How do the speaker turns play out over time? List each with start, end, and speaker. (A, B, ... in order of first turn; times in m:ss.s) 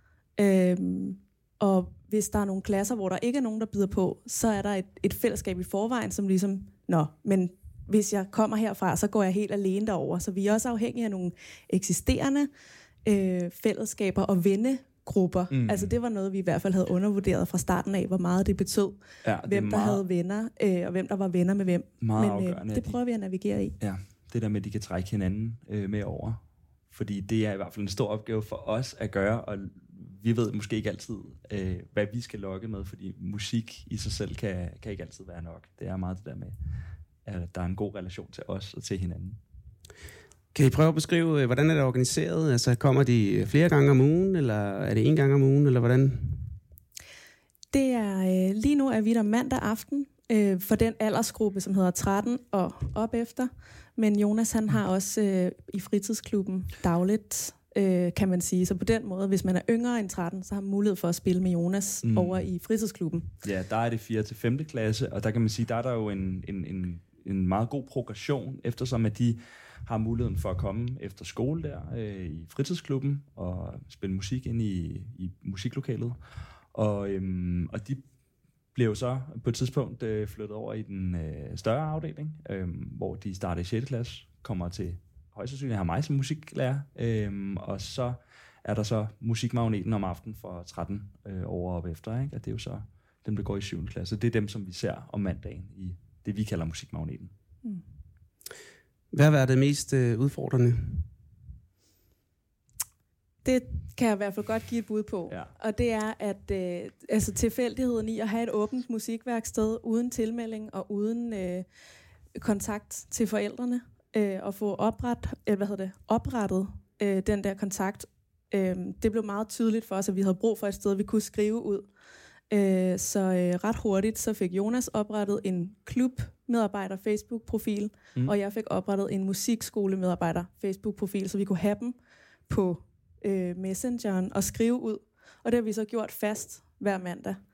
0:00.4-0:12.5 A
0:13.0-0:23.7 A
0:15.5-0:15.9 B
0:19.2-0:20.0 B
0:22.0-0:23.0 B
0:23.8-0:36.5 B
0:37.2-0:39.4 B
0:40.5-0:46.6 C
0:47.7-1:03.3 A
1:02.0-1:02.4 B
1:03.4-1:16.2 B
1:16.7-1:18.0 B
1:18.7-1:37.3 B
1:39.1-1:41.1 C
1:43.4-1:51.7 A
1:52.4-2:01.9 A
2:02.5-2:12.0 A
2:12.5-2:17.4 A